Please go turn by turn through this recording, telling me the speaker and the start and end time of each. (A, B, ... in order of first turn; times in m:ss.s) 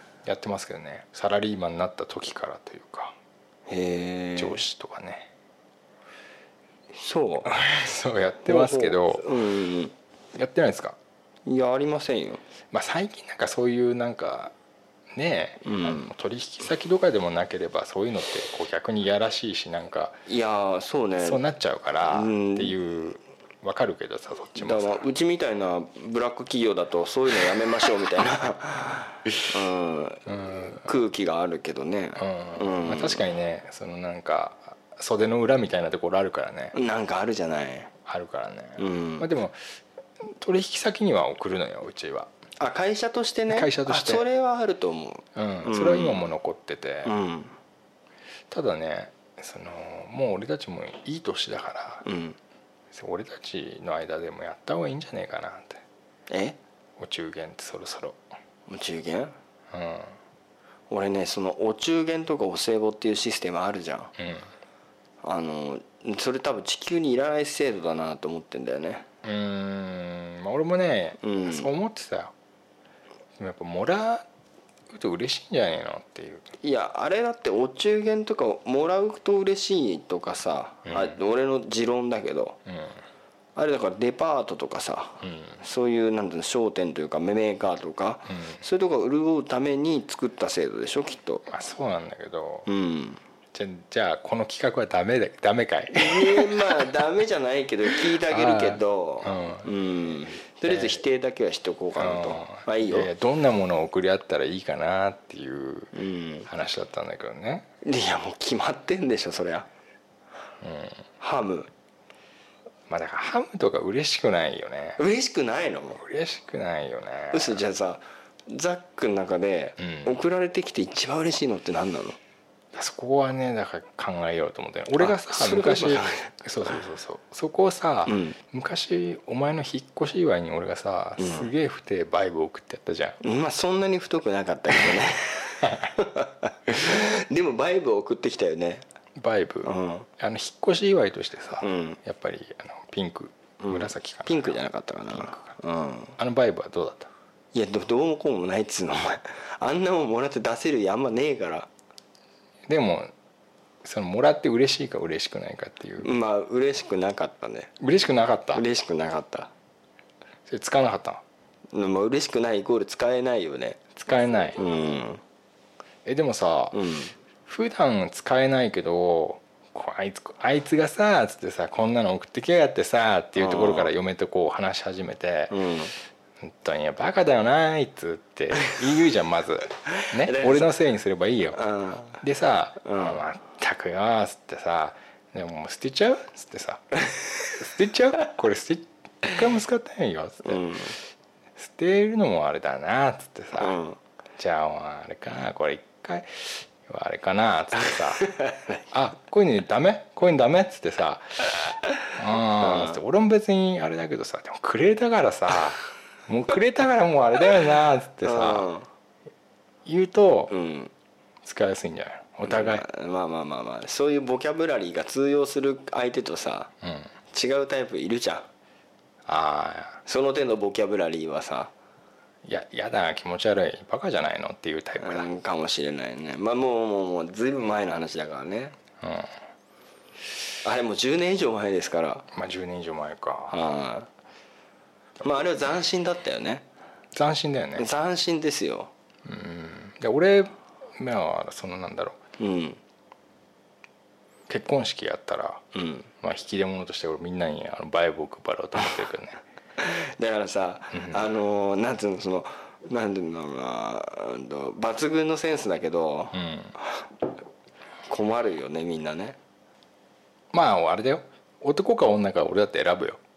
0:00.2-0:03.2 A
0:03.7-0:04.6 B
0:04.4-0:05.3 A
0:06.9-0:07.5 B
0:07.5-0:09.3 A
0:08.5-0:09.9 B
0:10.4-0:11.0 A
0:11.5-0:12.4 B
0:12.7-0:14.5 A
0:15.1-0:20.2 A
0:15.6-0:16.1 B
0:20.3-0:21.4 B
0:21.2-0:25.1 A
0:22.0-0:22.8 B
0:24.6-0:33.2 B
0:30.3-0:30.9 A
0:32.2-0:36.7 A
0:36.7-0:37.9 B
0:38.1-0:39.6 A
0:38.8-0:39.3 B
0:40.2-0:42.3 A
0:42.6-0:46.3 B
0:43.5-0:44.3 A
0:45.4-0:47.1 A
0:47.0-0:47.6 B
0:48.5-0:52.0 A
0:52.0-0:52.4 B
0:52.9-0:55.8 A
0:56.3-0:56.6 B
0:57.0-0:58.2 A
0:58.7-0:59.4 B
0:59.7-1:00.2 A
1:00.9-1:04.1 B
1:04.2-1:04.5 A
1:05.2-1:09.1 B
1:09.2-1:12.3 A
1:11.2-1:11.7 B
1:13.4-1:14.3 A
1:14.9-1:16.5 A
1:16.6-1:22.6 B
1:20.9-1:21.2 A
1:22.7-1:23.0 A
1:23.6-1:31.4 B
1:25.2-1:25.6 A
1:28.3-1:28.6 A
1:31.5-1:32.7 A
1:32.7-1:33.2 B
1:33.5-1:36.9 A
1:35.9-1:43.1 B
1:37.9-1:39.7 A
1:40.7-1:41.0 A
1:42.0-1:45.9 A
1:45.9-1:46.5 B
1:46.5-1:47.7 A
1:47.8-1:49.7 B
1:50.6-1:51.0 A
1:51.2-1:51.7 B
1:52.9-1:55.0 A
1:55.0-1:56.0 B
1:56.0-1:57.6 A
1:57.3-2:02.2 B
1:59.8-2:00.2 A
2:02.7-2:13.2 A
2:05.0-2:06.7 B
2:08.1-2:08.4 B
2:11.2-2:11.5 B
2:13.2-2:18.8 B
2:19.2-2:24.6 A
2:19.6-2:20.1 B
2:21.6-2:22.0 B
2:23.6-2:26.2 B
2:25.1-2:25.5 A
2:26.2-2:27.1 A
2:27.5-2:31.7 B
2:32.7-2:33.1 A
2:33.8-2:36.1 A
2:36.0-2:37.7 B
2:37.8-2:38.6 A
2:38.5-2:39.5 B
2:40.5-2:41.2 A
2:41.7-2:43.8 B
2:44.0-2:44.6 A
2:44.6-2:45.2 B
2:46.0-2:46.8 A
2:46.7-2:47.1 B
2:47.5-2:55.6 A
2:53.4-2:53.9 B
2:55.5-2:55.9 B
2:56.4-3:01.6 A
2:59.9-3:00.7 B
3:01.5-3:02.2 B
3:02.2-3:06.8 A
3:02.8-3:03.2 B
3:07.6-3:10.7 A
3:10.4-3:11.0 B
3:11.6-3:13.8 A
3:13.6-3:14.0 B
3:14.4-3:18.3 A
3:18.2-3:18.8 B
3:18.9-3:28.7 A
3:22.6-3:23.0 B
3:28.2-3:28.9 B
3:29.8-3:30.5 A
3:30.5-3:30.9 B
3:31.4-3:32.8 A
3:32.5-3:36.7 B
3:36.8-3:37.1 A
3:37.3-3:38.5 B
3:39.3-3:40.0 A
3:40.1-3:41.7 B
3:42.4-3:45.3 A
3:45.0-3:48.8 B
3:49.0-3:49.3 A
3:50.6-3:52.3 B
3:52.3-3:53.6 A
3:53.5-3:54.1 B
3:55.2-3:56.6 B
3:57.1-3:57.9 A
3:57.8-3:58.9 B
3:59.2-4:02.2 A
4:02.4-4:02.8 B
4:04.5-4:05.6 A
4:05.7-4:06.1 B
4:06.2-4:09.4 A
4:09.8-4:17.1 B
4:10.9-4:11.3 A
4:16.3-4:16.7 A
4:18.1-4:19.4 B
4:20.5-4:23.2 A